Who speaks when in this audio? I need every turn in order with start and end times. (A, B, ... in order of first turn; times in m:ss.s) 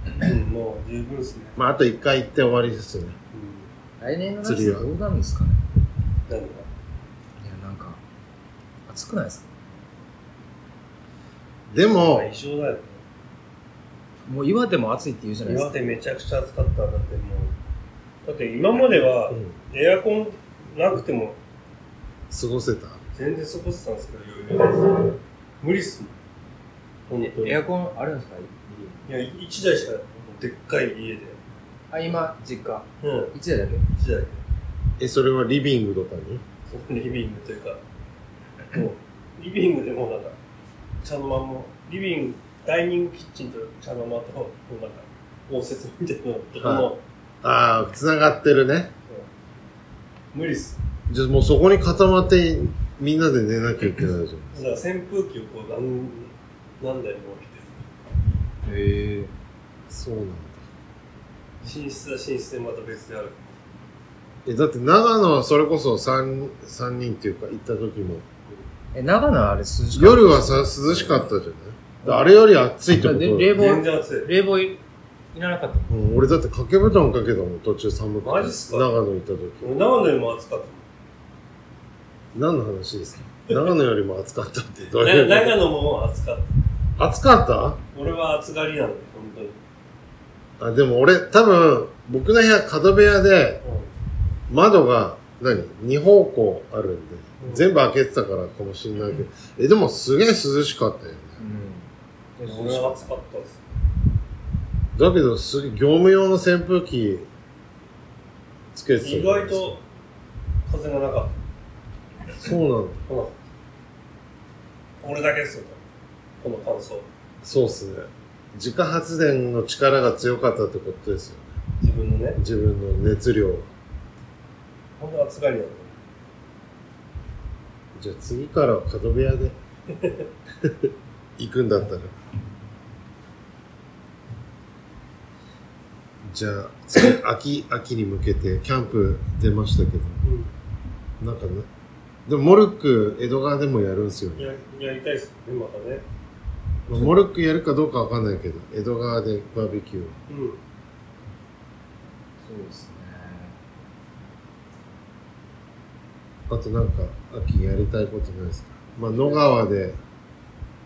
0:00.2-0:01.6 A
0:01.6-0:03.2 B
0:03.3-0:03.7 A
0:04.0-0:05.6 C
0:04.4-0:04.9 B
0:06.3-0:06.7 A
0:07.4-0:08.0 C
0:08.9-0:09.5 C
0:11.7-0:12.3 B
0:12.0-0:13.0 A
0:14.3-0:16.0 C
0:15.5-0:17.5 A
0:18.2-0:21.4 A
0:22.3-0:23.0 B
0:23.1-0:26.1 A
0:27.1-0:27.6 A
0:27.4-0:29.1 C
0:29.1-0:31.4 A
0:31.9-0:33.8 C
0:33.0-0:33.3 A
0:34.0-0:34.4 A
0:35.0-0:36.4 B
0:36.7-0:37.8 A
0:38.7-0:40.4 A
0:41.0-0:47.0 A
0:46.6-0:46.9 B
0:47.4-0:48.9 B
0:50.3-0:50.8 A
0:51.1-0:54.7 B
0:54.5-0:57.8 A
0:58.6-0:59.3 C
0:59.9-1:00.6 B
1:01.6-1:03.5 A
1:04.5-1:08.2 B
1:08.9-1:11.2 C
1:09.9-1:13.5 B
1:13.0-1:14.8 C
1:13.6-1:14.3 A
1:15.3-1:16.0 C
1:15.9-1:19.7 B
1:18.2-1:18.9 A
1:19.6-1:20.8 A
1:22.4-1:25.6 B
1:25.0-1:26.6 A
1:27.0-1:27.8 B
1:27.9-1:29.6 A
1:30.6-1:33.6 B
1:33.6-1:33.9 A
1:34.5-1:41.4 B
1:37.4-1:37.6 A
1:41.4-1:43.1 C
1:42.5-1:43.6 A
1:45.0-1:47.3 B
1:48.7-1:49.8 B
1:49.0-1:49.8 A
1:50.7-1:51.4 A
1:52.4-1:53.0 B
1:53.1-1:53.4 A
1:55.0-1:55.8 A
1:56.4-1:57.1 A
1:57.4-2:01.5 B
2:01.8-2:02.4 A
2:02.4-2:03.7 B
2:05.0-2:06.0 A
2:08.0-2:09.6 B
2:09.9-2:10.3 A
2:10.6-2:12.1 B
2:16.3-2:20.2 B
2:20.2-2:20.5 A
2:21.2-2:21.7 B
2:22.3-2:24.5 B
2:24.4-2:26.0 A
2:26.9-2:30.2 B
2:30.3-2:30.6 A
2:32.4-2:33.6 C
2:36.5-2:40.0 B